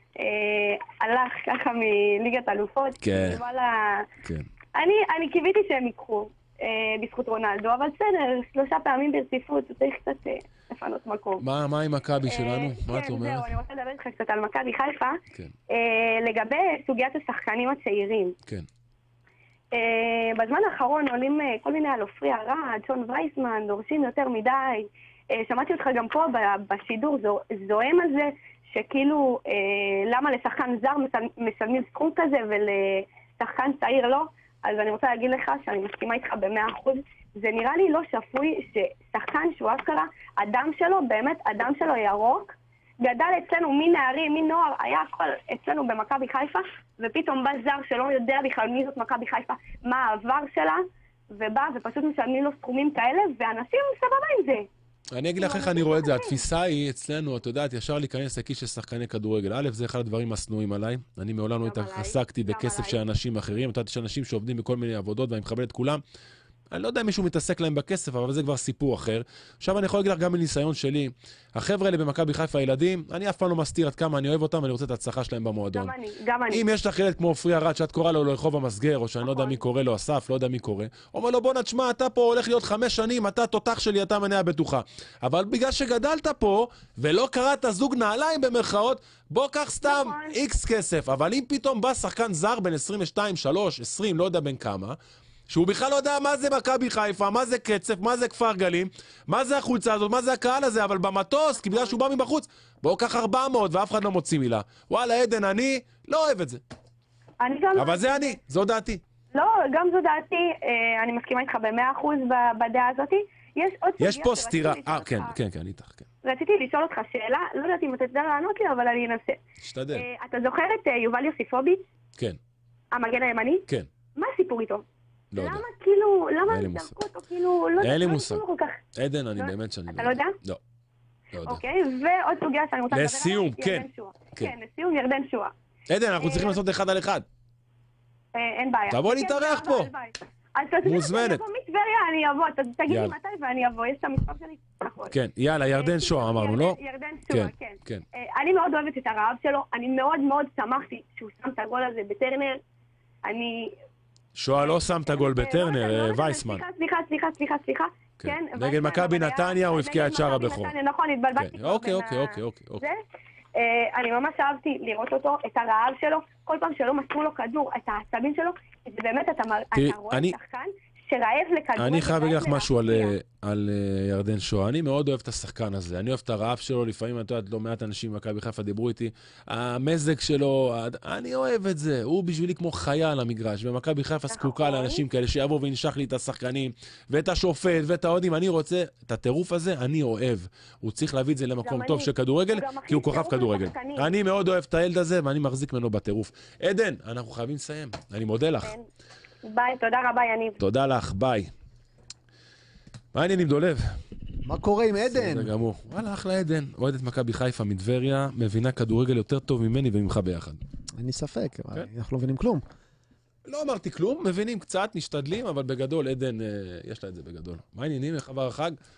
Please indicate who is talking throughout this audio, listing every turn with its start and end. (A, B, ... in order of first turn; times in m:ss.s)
0:00.2-0:04.0 A
0:03.0-0:03.4 B
0:04.7-0:11.4 A
0:11.4-0:13.5 B
0:12.2-0:15.2 A
0:15.7-0:18.3 A
0:19.7-0:54.7 A
0:55.1-1:06.0 B
0:55.4-0:56.4 A
1:01.6-1:03.0 A
1:06.7-1:15.9 B
1:15.7-1:16.6 A
1:16.5-1:35.0 B
1:19.2-1:19.6 A
1:29.8-1:30.3 A
1:35.5-1:46.6 B
1:47.4-1:48.4 A
1:47.7-1:49.0 B
1:49.3-1:55.3 A
1:54.0-1:56.1 B
1:56.2-1:59.4 A
1:59.6-2:00.1 B
1:59.9-2:01.8 A
2:02.9-2:03.6 A
2:04.2-2:04.8 A
2:05.3-2:05.6 B
2:05.4-2:08.8 A
2:06.5-2:06.9 B
2:07.8-2:08.4 B
2:09.0-2:10.6 B
2:09.4-2:10.4 A
2:11.3-2:11.6 B
2:11.4-2:15.5 A
2:12.9-2:14.5 B
2:15.9-2:17.2 B
2:16.2-2:16.6 A
2:18.3-2:25.1 A
2:18.9-2:19.9 B
2:20.8-2:21.4 B
2:22.9-2:23.2 B
2:25.1-2:26.8 B
2:25.7-2:32.6 A
2:27.3-2:28.0 B
2:33.2-2:33.7 A
2:34.3-2:36.6 B
2:34.6-2:43.0 A
2:38.2-2:40.7 B
2:41.4-2:42.8 B
2:43.6-2:53.1 A
2:49.7-2:50.3 B
2:51.8-3:18.7 B
3:04.3-3:05.0 A
3:11.6-3:14.1 A
3:19.4-3:20.6 A
3:20.6-3:21.5 B
3:23.1-3:24.0 B
3:24.4-3:25.5 C
3:25.0-3:30.6 B
3:31.0-3:32.6 C
3:33.4-3:38.8 B